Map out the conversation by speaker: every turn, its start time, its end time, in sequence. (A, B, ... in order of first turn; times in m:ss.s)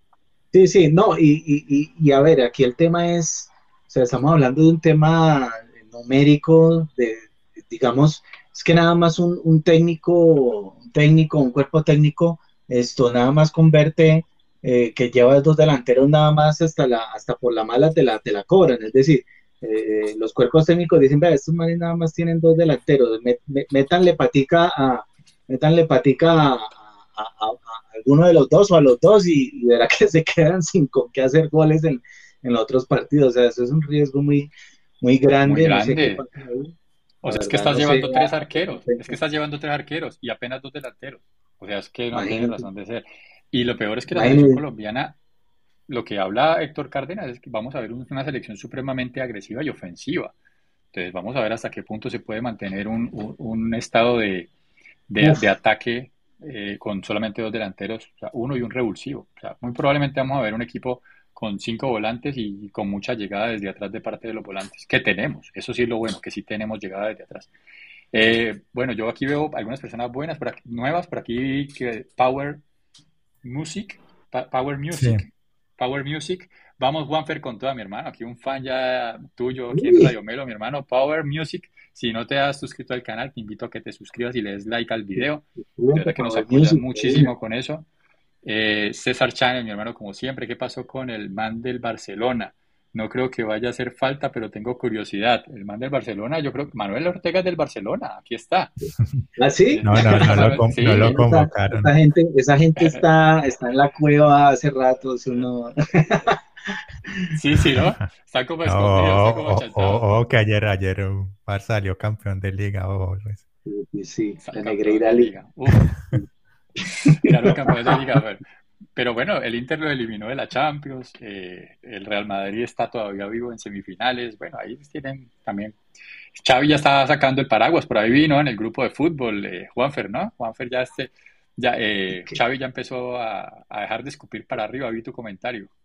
0:00.5-0:34.5 A
0:35.0-0:36.7 A
0:35.4-0:36.2 B
0:37.2-0:45.2 B
0:37.2-0:39.2 A
0:42.1-0:42.7 A
0:44.1-0:44.6 A
0:45.9-0:50.3 B
0:50.9-0:54.5 B
0:55.1-1:07.5 B
1:08.1-1:12.6 B
1:13.4-1:27.9 B
1:14.9-1:15.2 C
1:19.7-1:20.1 A
1:25.2-1:27.3 A
1:28.4-1:38.8 B
1:39.4-1:47.2 A
1:39.7-1:41.2 B
1:39.8-1:41.9 C
1:47.3-1:50.2 B
1:47.7-1:48.1 C
1:48.6-1:53.4 C
1:53.6-1:55.3 A
1:54.4-1:55.9 B
1:56.8-1:58.4 B
1:57.1-1:58.0 A
1:59.0-2:05.8 B
2:06.4-2:15.7 B